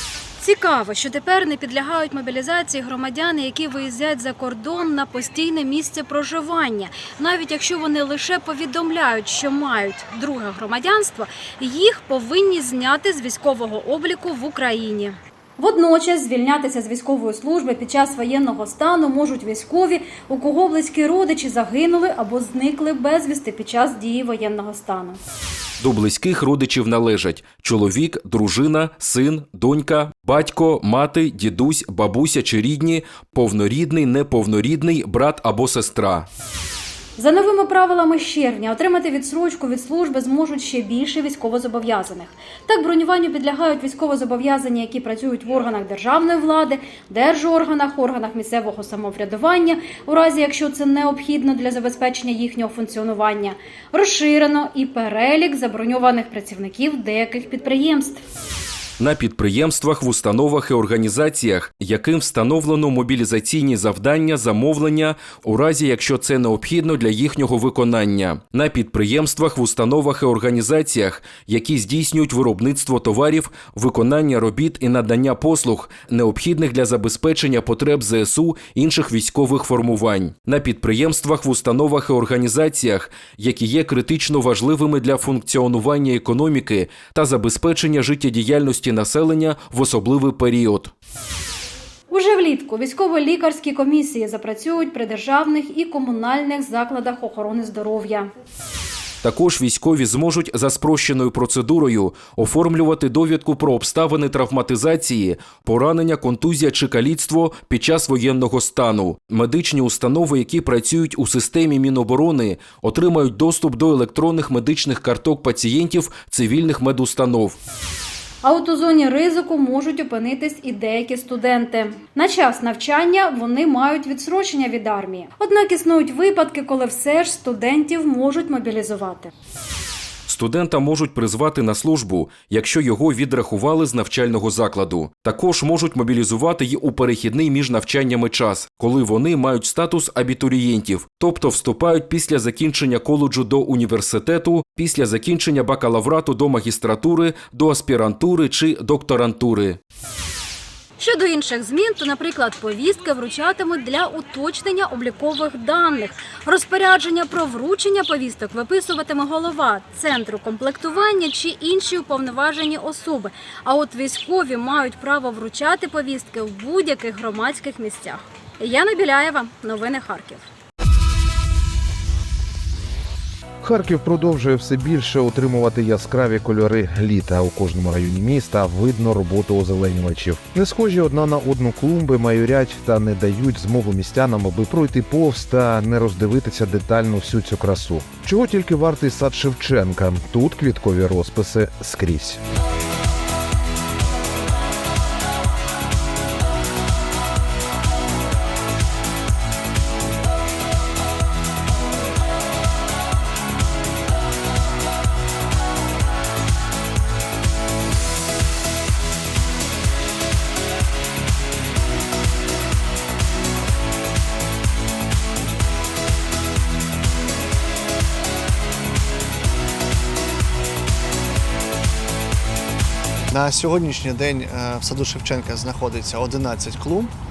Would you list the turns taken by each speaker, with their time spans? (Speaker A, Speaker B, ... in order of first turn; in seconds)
Speaker A: 0.4-25.2, 37.2-58.2, 92.1-98.3, 118.4-129.3, 151.0-170.4
Speaker B: 25.8-36.3, 59.0-90.9, 99.2-117.6, 130.3-149.8
Speaker C: 173.6-192.4
Speaker D: 223.3-227.1